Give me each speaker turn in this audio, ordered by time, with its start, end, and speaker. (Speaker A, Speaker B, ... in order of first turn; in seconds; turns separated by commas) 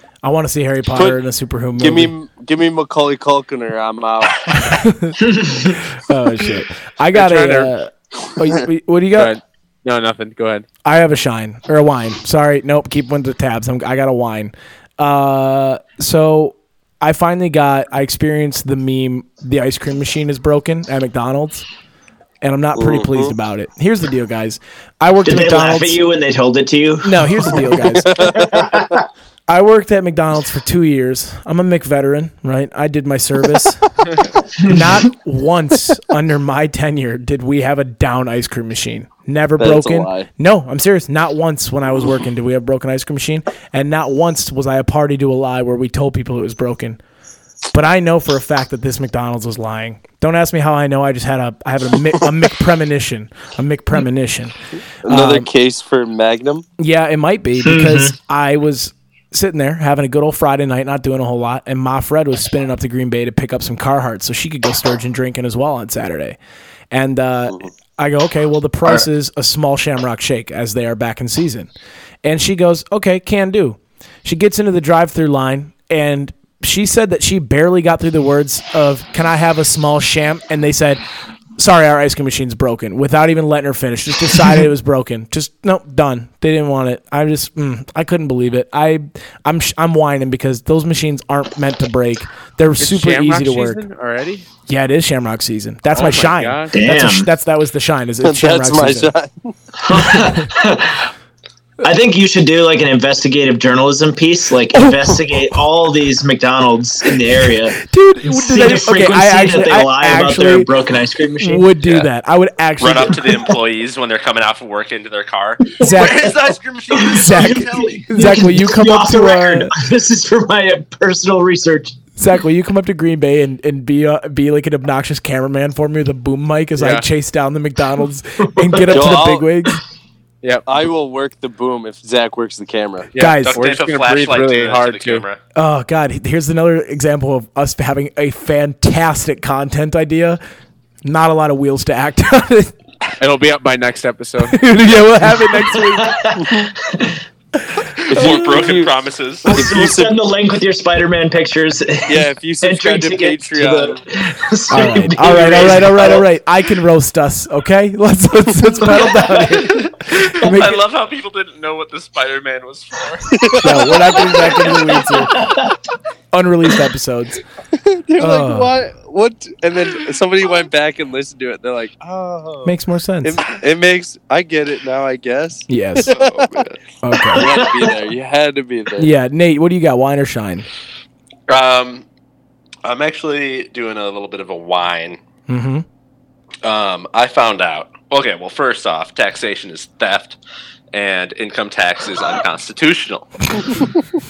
Speaker A: 0.2-2.1, Speaker B: 1.8-4.5, Speaker A: 4.5-9.3, Speaker C: 5.2-5.8, Speaker D: 7.1-7.7, Speaker D: 9.2-10.7, Speaker A: 10.8-21.6, Speaker A: 22.4-26.0, Speaker B: 22.7-23.3, Speaker C: 25.2-29.0, Speaker A: 27.0-28.6, Speaker B: 28.1-28.6, Speaker A: 29.5-33.8, Speaker C: 34.5-34.9, Speaker A: 34.6-47.0, Speaker B: 39.6-40.3, Speaker A: 47.7-55.5, Speaker B: 55.0-56.6, Speaker A: 56.8-66.4, Speaker C: 57.6-58.1, Speaker A: 66.9-71.7, Speaker A: 72.2-81.0, Speaker A: 81.6-93.8, Speaker D: 92.8-94.5, Speaker A: 94.7-99.1, Speaker D: 95.9-96.8, Speaker C: 96.7-97.3, Speaker B: 98.2-99.5, Speaker C: 99.8-101.1, Speaker A: 99.9-100.5, Speaker C: 101.8-111.7, Speaker A: 104.7-105.6, Speaker A: 107.4-110.7, Speaker A: 111.4-113.3, Speaker E: 112.8-118.0, Speaker A: 115.8-116.4, Speaker C: 116.9-122.0, Speaker A: 117.0-119.7, Speaker A: 122.2-129.8, Speaker D: 126.8-127.0, Speaker C: 128.6-129.1, Speaker B: 128.9-129.4, Speaker B: 130.7-133.1, Speaker D: 133.1-135.2, Speaker A: 133.2-133.6, Speaker E: 133.4-135.4, Speaker A: 135.5-140.4, Speaker A: 141.0-142.7, Speaker D: 143.2-144.6, Speaker A: 144.5-146.4, Speaker C: 145.7-147.2, Speaker E: 148.0-149.6, Speaker B: 148.1-148.9, Speaker B: 149.4-150.2, Speaker C: 149.4-156.2, Speaker B: 152.1-154.0, Speaker A: 154.7-160.8, Speaker C: 158.8-159.6, Speaker E: 159.7-164.1, Speaker B: 163.3-163.7, Speaker A: 163.6-165.4, Speaker C: 165.2-165.8, Speaker A: 166.3-167.4, Speaker B: 167.7-176.7, Speaker A: 168.2-168.7, Speaker A: 172.6-173.4, Speaker A: 175.7-176.1, Speaker E: 176.1-176.8, Speaker A: 177.0-177.4, Speaker B: 177.3-179.1, Speaker A: 179.0-180.7, Speaker E: 181.5-182.1, Speaker E: 182.8-185.2, Speaker A: 185.5-185.8, Speaker E: 186.6-190.4, Speaker E: 190.9-193.9